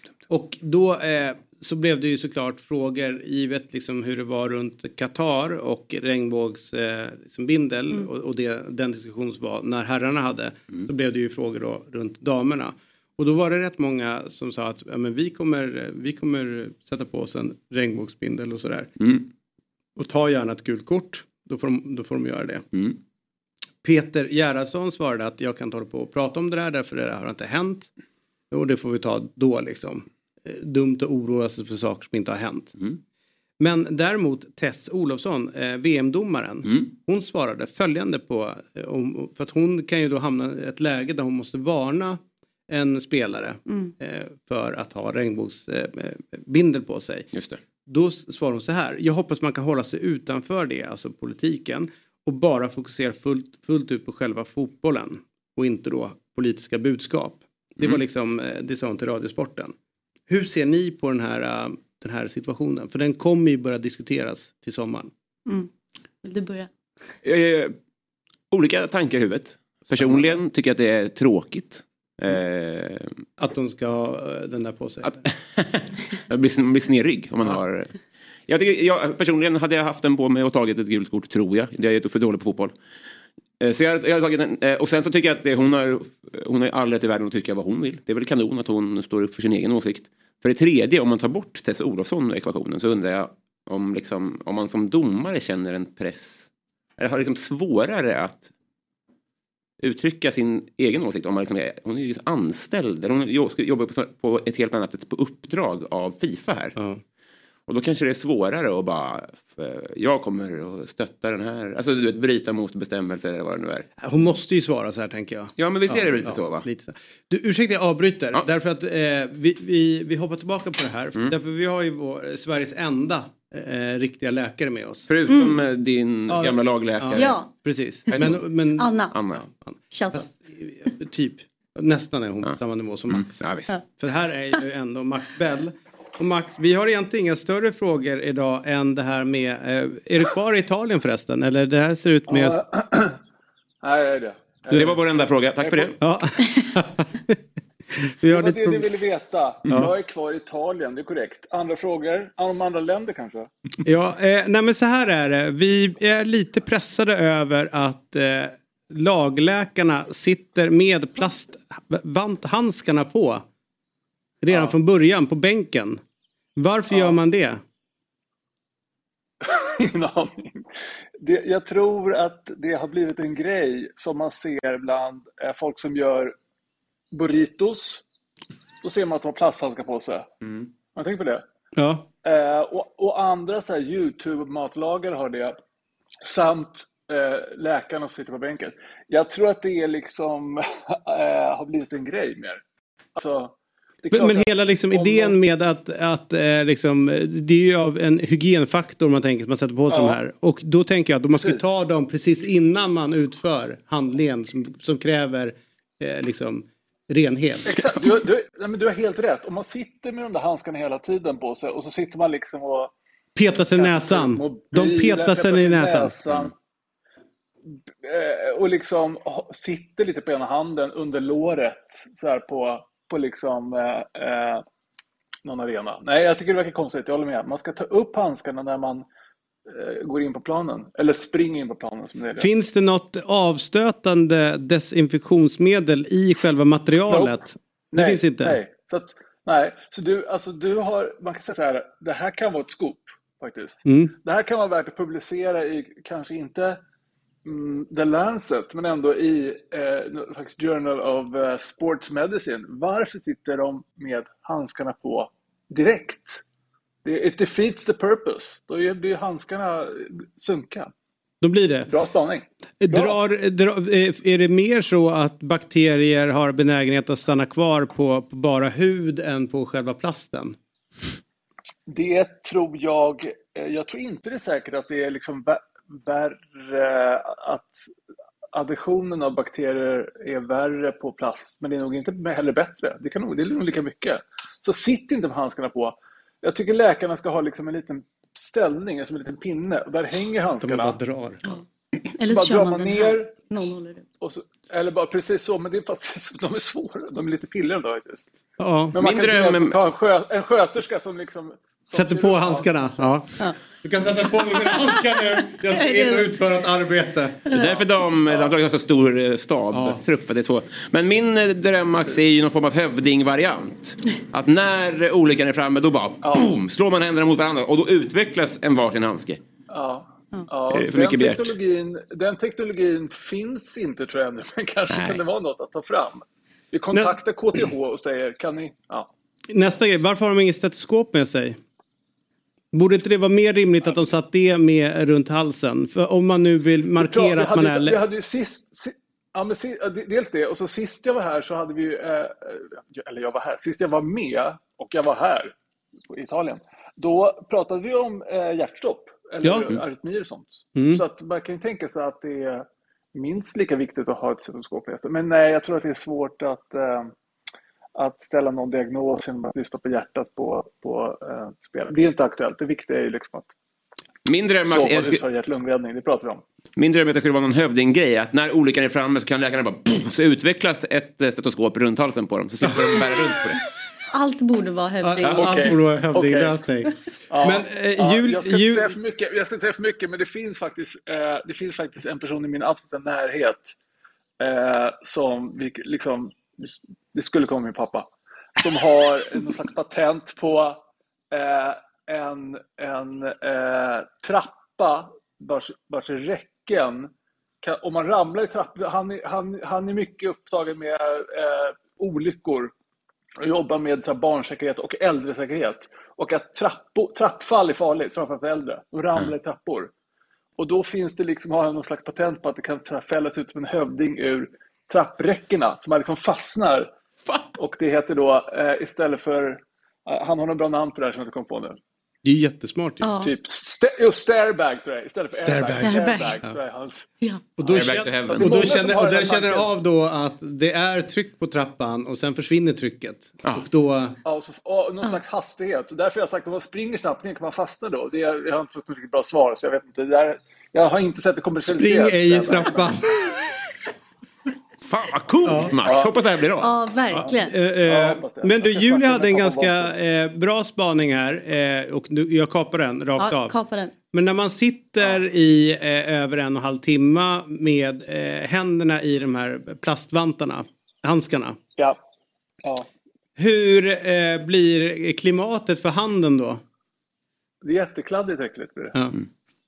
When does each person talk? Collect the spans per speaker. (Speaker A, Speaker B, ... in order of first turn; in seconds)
Speaker A: 0.3-18.9, 20.0-22.7, 23.8-27.9, 28.5-32.7, 33.6-47.3, 47.9-59.7, 60.3-65.1, 69.9-70.3, 73.4-75.2, 106.8-107.0, 114.0-125.1, 126.3-128.9, 129.4-133.4, 134.0-142.6, 146.0-147.4, 148.0-148.9, 153.8-163.4, 164.4-166.0, 166.6-167.6, 181.8-182.1, 194.1-207.8, 213.4-216.2, 232.4-238.6, 243.9-244.1, 261.4-261.9, 262.8-270.6, 290.6-291.5, 298.6-299.0, 301.9-303.3, 303.8-307.4, 309.7-310.0, 329.5-331.6, 332.7-338.0, 349.4-349.7, 350.8-351.0, 375.0-378.9, 422.2-423.1, 425.4-426.6, 427.6-434.2, 441.6-443.3, 445.4-445.7, 447.3-453.6, 454.1-461.6, 463.4-466.6
Speaker B: 19.0-19.2, 47.3-47.6, 67.2-67.8, 68.5-73.2, 75.1-77.9, 78.5-82.7, 83.6-96.5, 97.0-98.5, 99.8-106.8, 107.7-113.9, 115.6-116.7, 125.1-127.4, 129.1-129.4, 133.1-133.7, 144.7-145.9, 299.0-299.8, 307.5-319.4, 320.7-321.6, 324.9-325.2, 364.3-365.2, 366.8-373.6, 427.7-428.6, 444.9-446.7
Speaker C: 43.7-43.9, 66.2-66.7, 125.3-125.6, 127.2-127.5, 128.1-129.2, 129.9-130.3, 291.4-294.1, 305.7-306.3, 307.5-307.8, 374.1-375.8, 423.0-423.3, 425.7-426.4, 446.6-447.5, 453.2-453.9
Speaker D: 142.3-143.2, 143.8-145.0, 145.6-145.9, 148.3-153.5, 169.5-170.7, 171.2-176.3, 177.1-178.0, 178.8-180.3, 180.9-181.4, 182.2-185.6, 186.2-192.6, 193.2-195.4, 199.9-200.2, 201.4-201.7, 207.7-212.9, 213.7-216.5, 218.0-224.7, 225.4-229.1, 229.7-232.5, 237.1-237.4, 237.9-246.8, 247.4-256.4, 257.1-260.9, 261.9-263.2, 271.9-277.8, 278.5-291.0, 292.3-293.4, 294.2-298.3, 298.9-302.9, 316.2-316.6, 319.7-329.1, 337.0-345.5, 346.1-357.1, 358.0-363.5, 364.7-366.4, 375.3-376.5, 377.3-383.7, 384.4-390.8, 391.3-397.1, 397.6-402.7, 403.4-409.9, 410.6-416.9, 417.6-421.8, 423.2-427.1, 428.3-429.7, 434.2-442.9, 445.8-446.1, 447.1-450.0, 467.6-469.0